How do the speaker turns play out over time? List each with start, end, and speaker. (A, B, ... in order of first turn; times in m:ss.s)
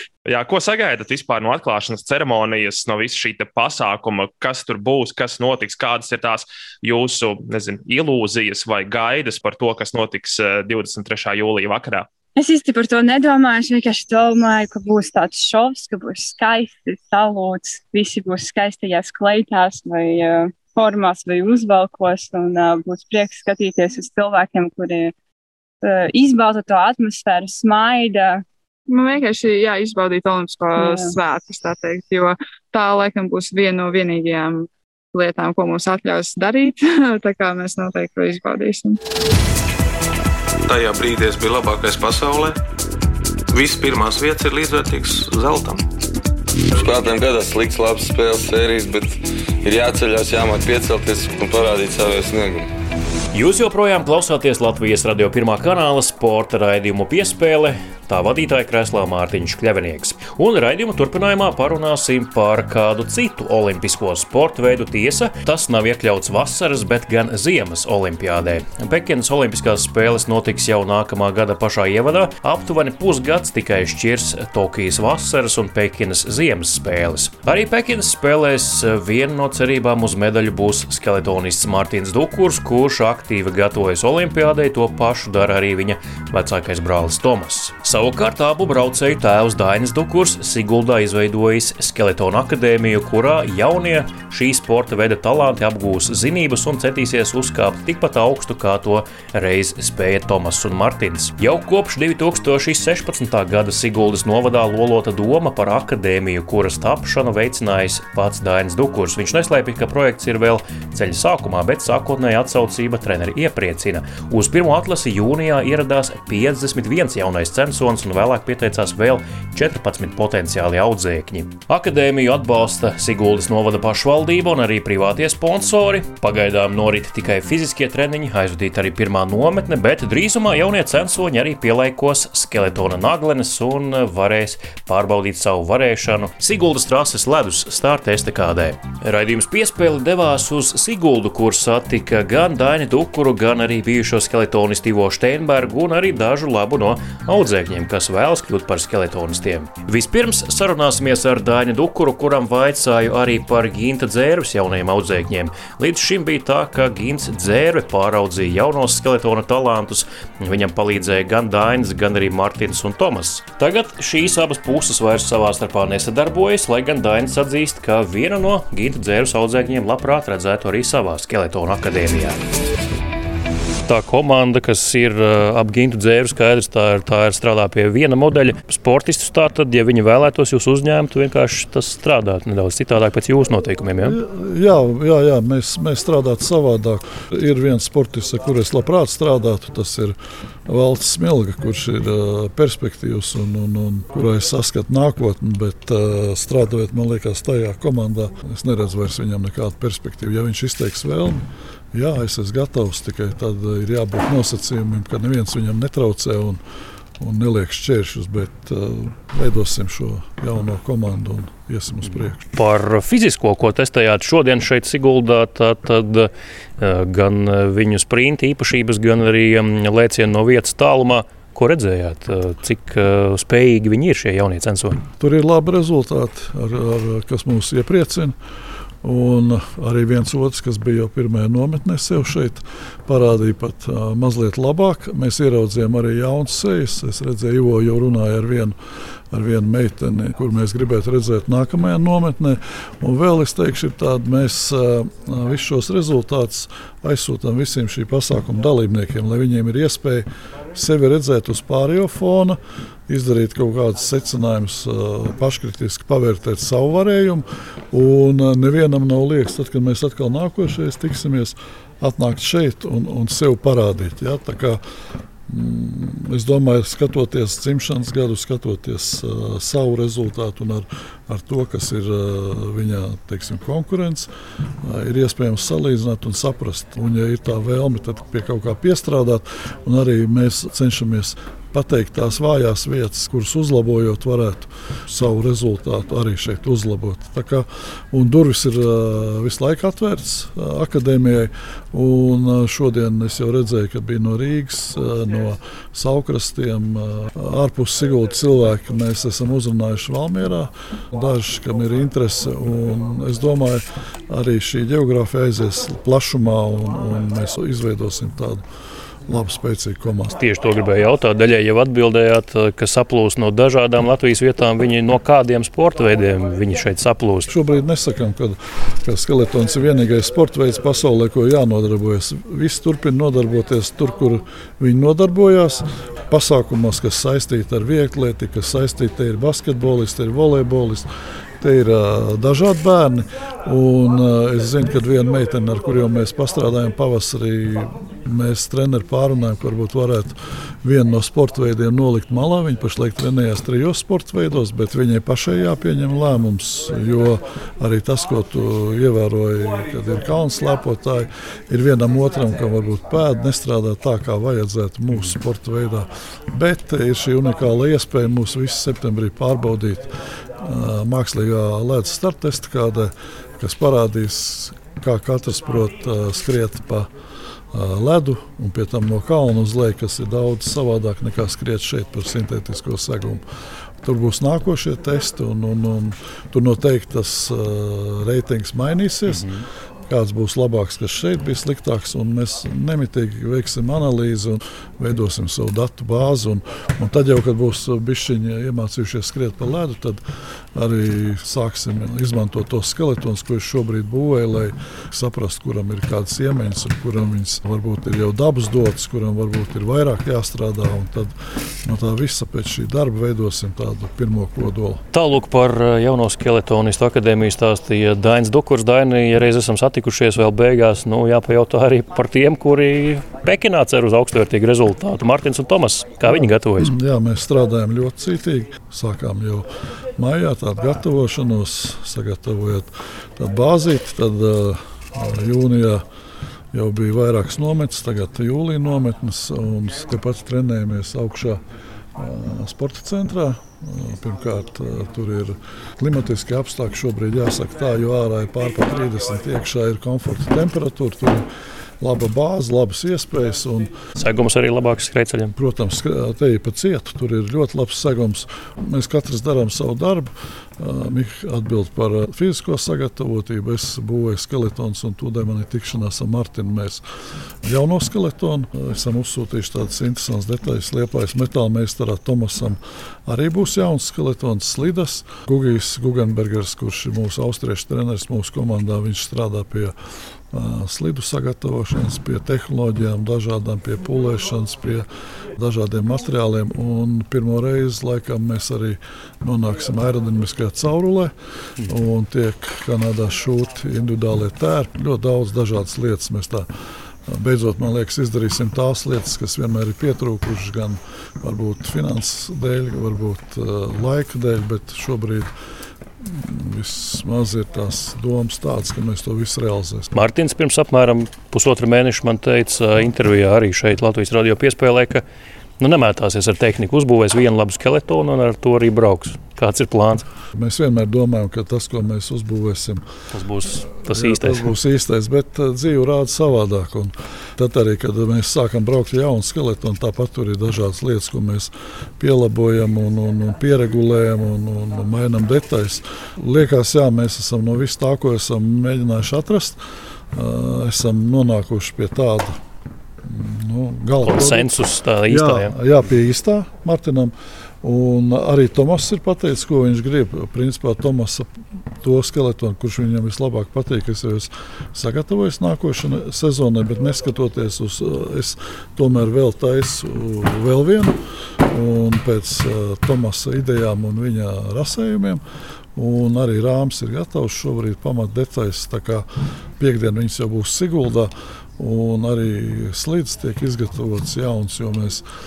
0:00.2-0:12.1 A
0:12.4-0:25.1 B
0:25.8-0:28.4 B
0:28.9-0:39.0 C
0:30.8-0:31.2 B
0:40.7-0:42.6 D
0:43.5-0:45.8 D
0:46.7-0:52.7 E
0:53.3-2:52.4 F
2:53.9-3:04.2 F
3:04.0-3:10.2 G
3:10.7-3:26.6 G
3:27.2-3:32.4 G
3:32.0-3:45.0 F
3:45.2-3:48.4 G
3:49.0-3:58.8 G
3:59.3-4:24.8 G
4:25.5-4:34.3 G
4:34.8-5:08.6 G
5:09.3-5:10.4 G
5:10.4-5:17.5 F
5:17.5-5:31.1 G
5:31.6-6:07.1 G
6:07.7-6:13.4 G
6:14.0-6:19.5 G
6:19.3-6:19.7 F
6:20.1-6:30.2 G
6:30.8-6:45.0 G
6:45.1-6:56.9 F
6:56.2-7:06.0 G
7:06.7-7:11.6 G
7:12.2-7:21.4 G
7:22.0-7:23.9 G
7:24.2-7:25.5 F
7:25.6-7:37.0 G
7:37.6-7:50.0 G
7:50.5-8:06.7 G
8:07.3-8:15.5 G
8:16.2-8:20.2 G
8:20.1-8:25.2 F
8:25.8-8:30.3 F
8:30.5-8:33.0 G
8:33.3-8:34.7 F
8:34.0-8:49.8 G
8:50.3-8:52.6 G
8:53.2-9:01.5 G
8:54.2-8:55.7 F
9:02.0-9:15.4 G
9:16.0-9:19.3 G
9:19.8-9:25.2 G